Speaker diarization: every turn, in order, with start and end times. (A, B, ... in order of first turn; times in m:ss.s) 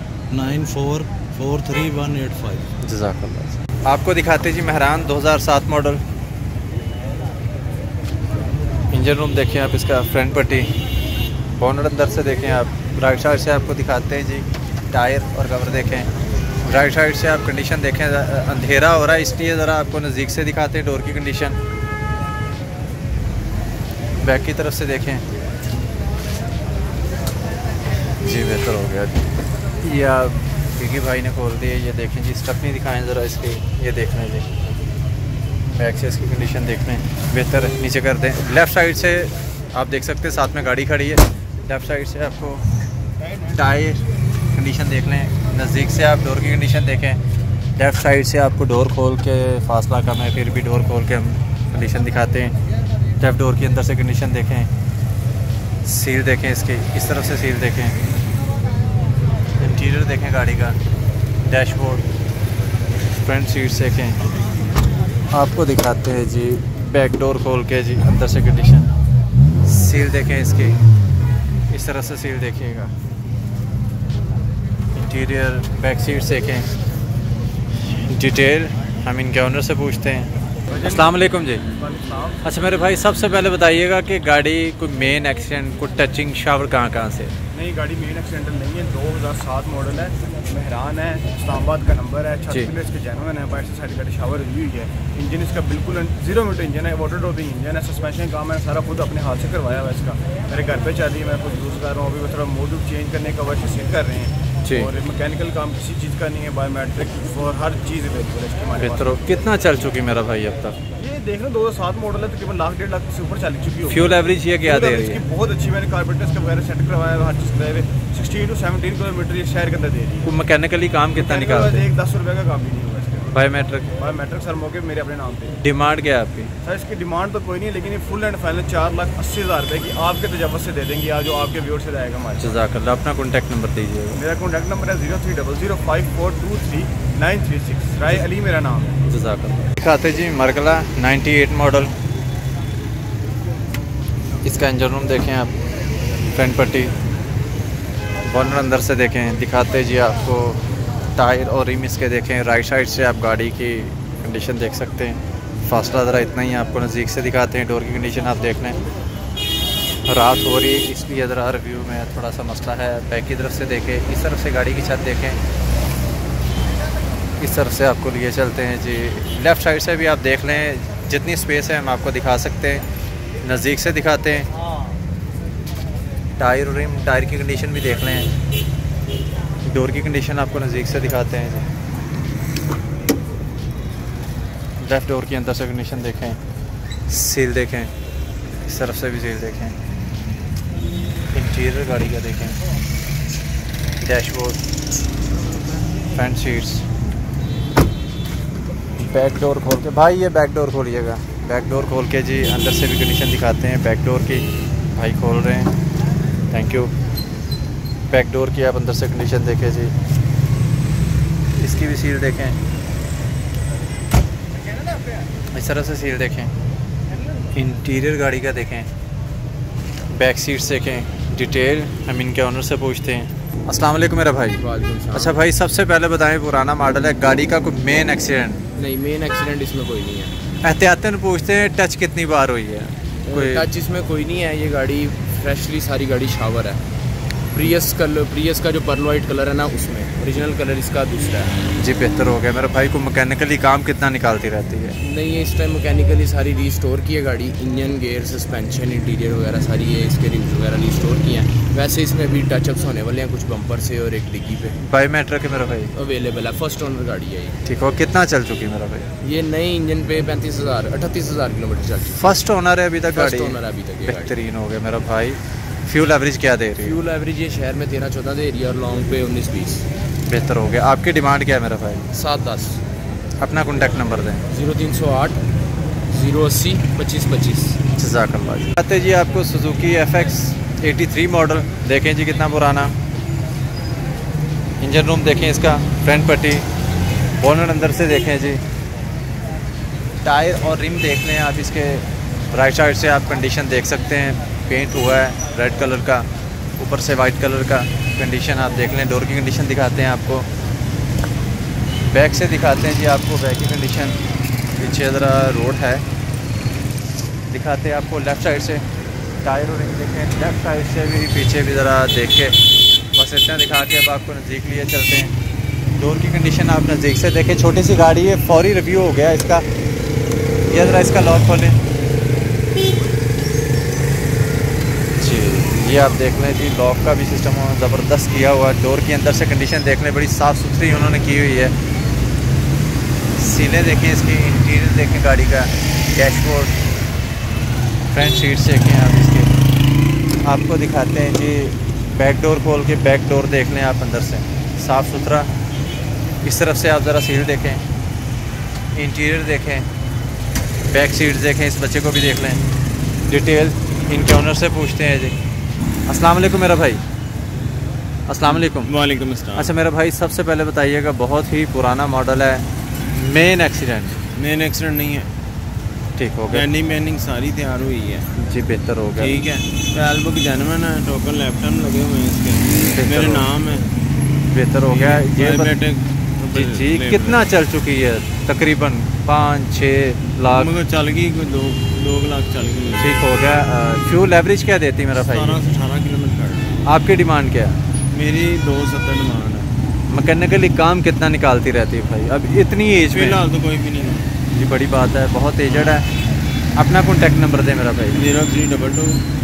0:00.3-0:02.7 A
0:02.8-0:06.0 B
0:08.9-0:10.7 B
0:11.6-0:16.1 B
0:16.6-0:21.6 B
0:24.2-0:25.2 B
0:28.2-0:34.5 B
0:35.7-0:42.6 B
0:43.4-0:47.2 B
0:47.8-0:52.5 B
0:53.2-0:54.7 B
0:55.8-0:58.0 B
0:59.6-1:00.8 B
1:01.5-1:02.0 B
1:03.1-1:04.2 B
1:05.3-1:08.9 B
1:09.6-1:10.8 B
1:11.7-1:12.9 B
1:14.9-1:16.7 B
1:18.1-1:20.3 B
1:20.7-1:21.2 C
1:20.8-1:21.6 B
1:21.8-1:22.5 C
1:22.4-1:27.3 B
1:27.5-1:49.1 C
1:48.8-1:50.8 B
1:51.0-2:00.3 C
1:53.9-1:55.2 B
2:00.2-2:01.8 B
2:01.2-2:03.3 C
2:03.3-2:03.8 B
2:04.0-2:05.6 C
2:05.6-2:06.5 B
2:06.6-2:12.6 C
2:12.4-2:14.2 B
2:14.1-2:19.0 C
2:19.0-2:21.9 B
2:24.4-2:25.5 B
2:26.3-2:26.9 B
2:28.2-2:30.6 B
2:31.2-2:38.8 B
2:40.0-2:45.4 B
2:47.4-2:52.8 B
2:53.4-2:54.5 B
2:56.4-2:58.3 B
2:59.6-3:01.7 B
3:04.8-3:06.4 B
3:07.1-3:07.9 B
3:08.6-3:09.7 B
3:11.3-3:12.6 B
3:14.0-3:14.6 B
3:16.1-3:16.8 B
3:19.0-3:25.7 B
3:26.5-3:26.9 B
3:28.1-3:29.9 B
3:31.6-3:32.6 B
3:35.5-3:36.5 B
3:37.5-3:38.9 B
3:40.1-3:44.6 B
3:44.6-3:45.4 D
3:45.1-3:48.6 B
3:48.8-3:50.3 D
3:50.6-3:53.7 B
3:53.2-3:56.8 D
3:57.5-4:01.5 D
4:01.8-4:05.0 B
4:05.0-4:14.8 D
4:14.8-4:15.9 B
4:15.9-4:17.6 D
4:17.6-4:19.1 B
4:19.2-4:22.4 D
4:22.1-4:27.0 B
4:23.1-4:24.3 D
4:26.8-4:29.8 D
4:30.3-4:32.0 B
4:32.1-4:32.8 D
4:33.4-4:34.4 B
4:34.5-4:35.4 D
4:36.1-4:37.8 D
4:38.0-4:42.9 B
4:44.8-4:46.6 B
4:47.4-4:48.6 B
4:50.2-4:56.2 B
4:56.8-5:00.5 B
5:02.1-5:04.2 B
5:04.8-5:06.0 B
5:07.5-5:08.8 B
5:09.4-5:12.6 B
5:13.1-5:15.3 B
5:16.0-5:19.6 B
5:20.7-5:21.8 B
5:25.2-5:31.7 B
5:33.4-5:36.8 B
5:38.1-5:39.5 B
5:40.4-5:45.5 B
5:46.4-5:47.8 B
5:49.0-5:49.8 B
5:50.9-5:52.6 B
5:53.3-5:55.3 B
5:56.1-5:57.0 B
5:58.3-5:58.9 B
5:58.5-5:59.7 E
5:59.5-6:04.2 B
6:04.4-6:05.3 E
6:06.2-6:06.6 B
6:06.5-6:08.2 E
6:08.4-6:09.4 B
6:09.2-6:13.9 E
6:12.8-6:13.4 B
6:14.5-6:15.7 B
6:14.9-6:17.4 E
6:16.5-6:20.7 B
6:20.6-6:23.1 E
6:23.0-6:25.6 B
6:25.2-6:26.7 E
6:26.8-6:27.8 B
6:28.1-6:29.7 E
6:30.1-6:33.4 B
6:33.1-6:34.3 E
6:34.5-6:36.1 B
6:36.8-6:38.2 B
6:38.2-6:39.2 E